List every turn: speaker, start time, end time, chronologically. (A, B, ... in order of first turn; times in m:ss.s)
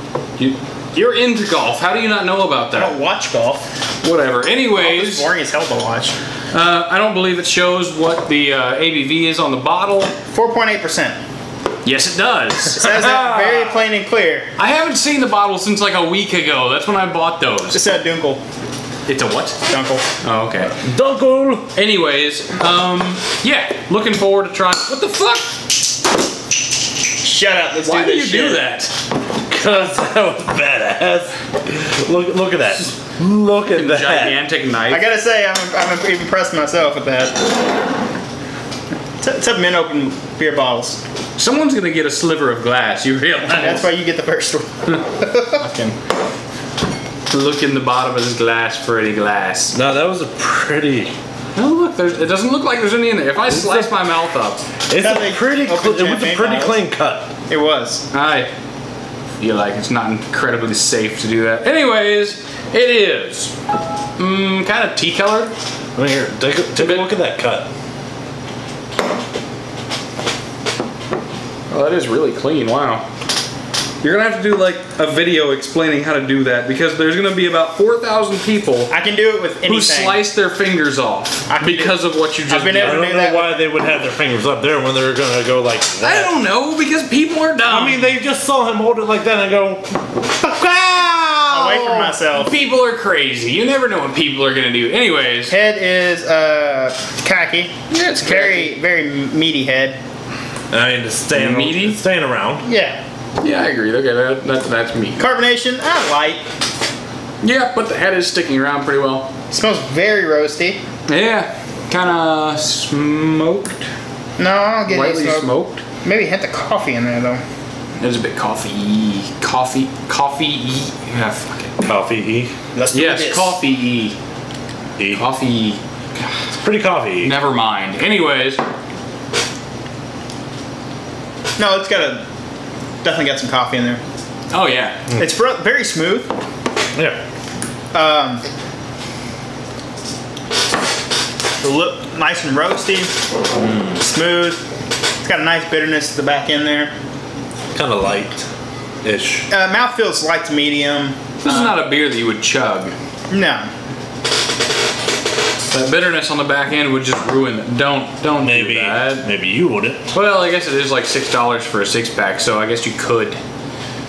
0:00.4-0:02.9 A
0:02.8-0:03.6 B
0:04.0-0:05.3 A
0:04.8-0:06.2 B
0:06.5-0:10.1 A
0:10.3-0:11.2 B
0:11.8-0:13.8 A
0:12.7-0:14.5 B
0:14.6-0:17.8 A
0:17.7-0:18.4 B
0:19.1-0:19.6 A
0:19.7-0:20.0 B
0:20.2-0:20.8 A
0:20.8-0:21.7 C
0:21.7-0:25.5 A
0:27.2-0:28.7 B
0:27.8-0:28.9 A
0:29.5-0:34.4 C
0:33.7-0:35.1 A
0:34.9-0:37.4 B
0:39.2-0:41.0 B
0:41.4-0:43.9 A
0:43.5-0:45.6 B
0:45.6-0:46.0 A
0:47.3-0:49.8 A
0:49.7-0:51.2 C
0:51.6-0:54.6 A
0:53.5-0:53.9 C
0:54.9-0:57.3 C
0:55.0-0:56.8 B
0:57.5-0:58.0 B
0:58.1-0:58.5 A
0:59.4-1:03.5 A
1:04.2-1:05.5 A
1:06.0-1:07.7 C
1:06.8-1:07.1 A
1:11.7-1:13.0 A
1:14.0-1:18.9 A
1:18.9-1:20.2 B
1:19.6-1:23.0 A
1:21.5-1:23.7 B
1:22.8-1:26.3 C
1:26.0-1:28.1 A
1:27.7-1:32.1 C
1:31.5-1:32.6 B
1:32.4-1:35.6 A
1:35.5-1:40.0 B
1:37.9-1:38.8 A
1:40.7-1:42.7 C
1:41.3-1:42.0 A
1:42.6-1:43.0 B
1:43.4-1:45.2 A
1:45.2-1:46.4 B
1:47.4-1:49.3 A
1:49.5-1:50.8 B
1:51.1-1:53.8 A
1:54.4-1:55.5 B
1:54.9-1:55.8 A
1:56.0-1:57.4 B
1:58.0-2:01.8 A
2:01.8-2:02.5 C
2:02.7-2:03.6 B
2:02.9-2:04.2 A
2:05.1-2:06.4 A
2:06.6-2:07.3 C
2:07.2-2:08.6 A
2:11.6-2:12.2 B
2:13.0-2:14.0 B
2:14.5-2:15.0 A
2:15.2-2:16.3 B
2:17.9-2:18.4 B
2:21.6-2:23.1 B
2:23.6-2:24.0 C
2:24.0-2:24.6 B
2:25.2-2:26.9 B
2:27.7-2:28.5 C
2:29.0-2:29.5 C
2:29.5-2:31.8 B
2:31.4-2:33.0 A
2:33.3-2:33.7 B
2:35.7-2:39.3 A
2:38.4-2:40.0 C
2:40.1-2:43.4 A